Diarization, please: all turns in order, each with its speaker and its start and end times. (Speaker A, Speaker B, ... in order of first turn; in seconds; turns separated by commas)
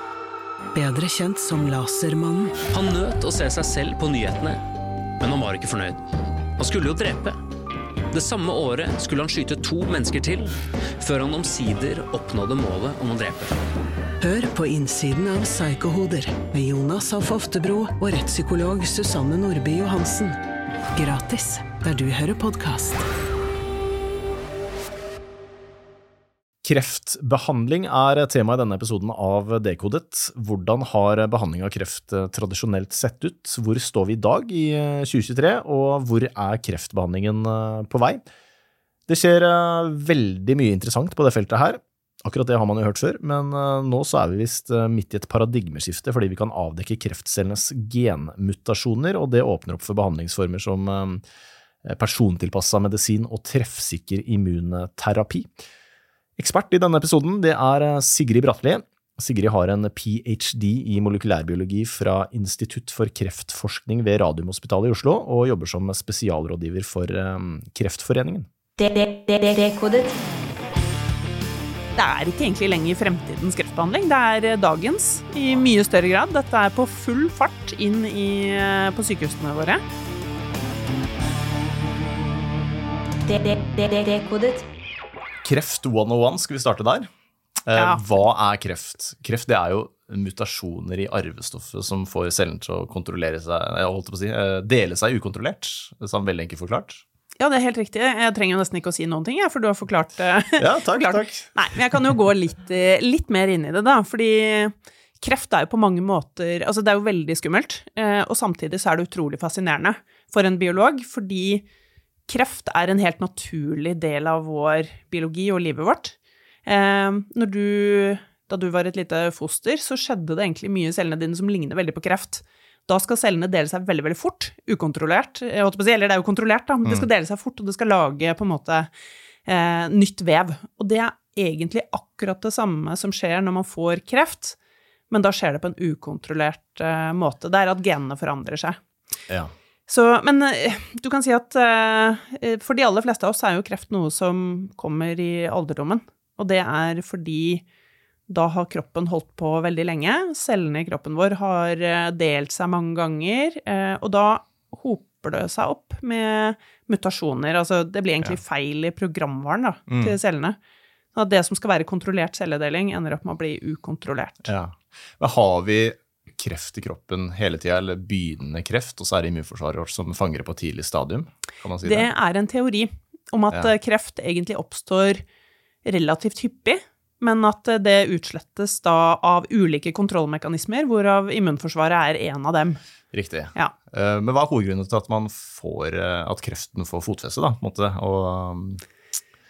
Speaker A: 0.7-2.6, Speaker B: 2.7-4.6, Speaker B: 5.2-6.0, Speaker B: 6.6-7.4, Speaker B: 8.1-13.5, Speaker A: 14.2-20.4, Speaker A: 20.9-23.1, Speaker C: 26.6-38.2, Speaker C: 39.1-51.2, Speaker C: 51.8-55.5, Speaker C: 56.4-68.5, Speaker D: 68.8-70.2, Speaker E: 71.9-79.8, Speaker D: 83.2-84.6, Speaker C: 85.4-87.1, Speaker C: 87.7-97.0, Speaker E: 87.7-88.0, Speaker E: 97.4-111.6, Speaker C: 100.6-102.1, Speaker E: 112.3-128.9, Speaker E: 129.4-134.6, Speaker E: 135.1-138.8, Speaker E: 139.9-147.6, Speaker E: 148.3-160.6, Speaker C: 159.9-160.1, Speaker E: 161.1-164.5, Speaker C: 164.4-172.1, Speaker E: 171.8-175.2, Speaker E: 175.8-182.8, Speaker C: 183.1-188.8